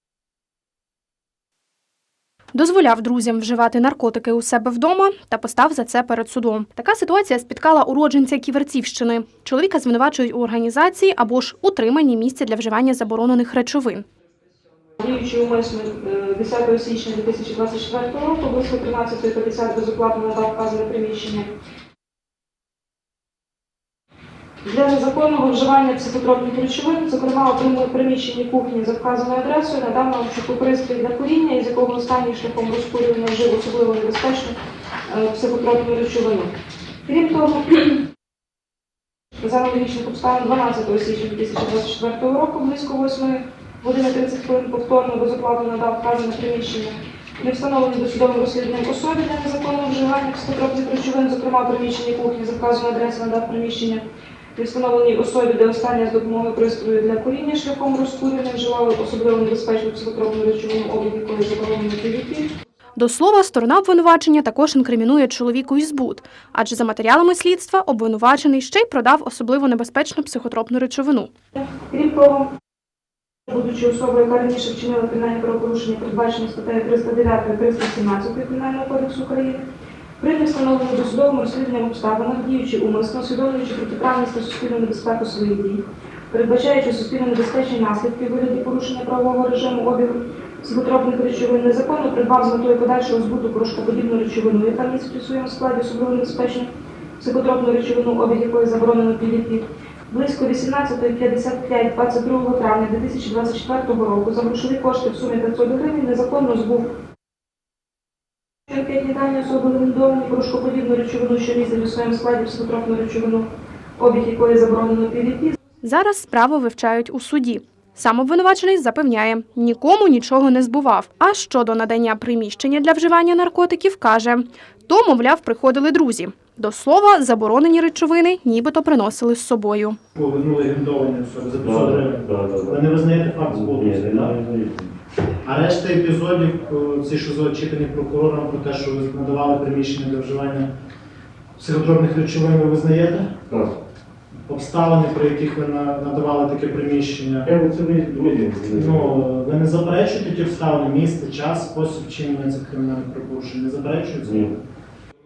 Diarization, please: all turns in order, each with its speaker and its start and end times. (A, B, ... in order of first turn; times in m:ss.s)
0:02.5-0:14.0 A
0:15.0-0:21.5 B
0:24.6-0:34.5 B
0:35.1-0:36.5 B
0:37.0-0:38.0 B
0:39.4-0:54.0 B
0:54.6-1:02.5 B
1:03.0-1:11.3 A
1:11.7-1:12.5 B
1:13.5-1:19.6 B
1:20.2-1:46.9 B
1:48.7-1:53.5 B
1:54.0-1:55.5 B
1:55.8-2:10.0 A
2:10.2-2:14.4 C
2:11.6-2:12.9 D
2:13.5-2:14.9 D
2:15.4-2:20.7 C
2:21.6-2:23.4 C
2:23.5-2:23.8 D
2:24.5-2:27.5 C
2:27.4-2:29.2 D
2:28.7-2:34.5 C
2:34.2-2:34.5 D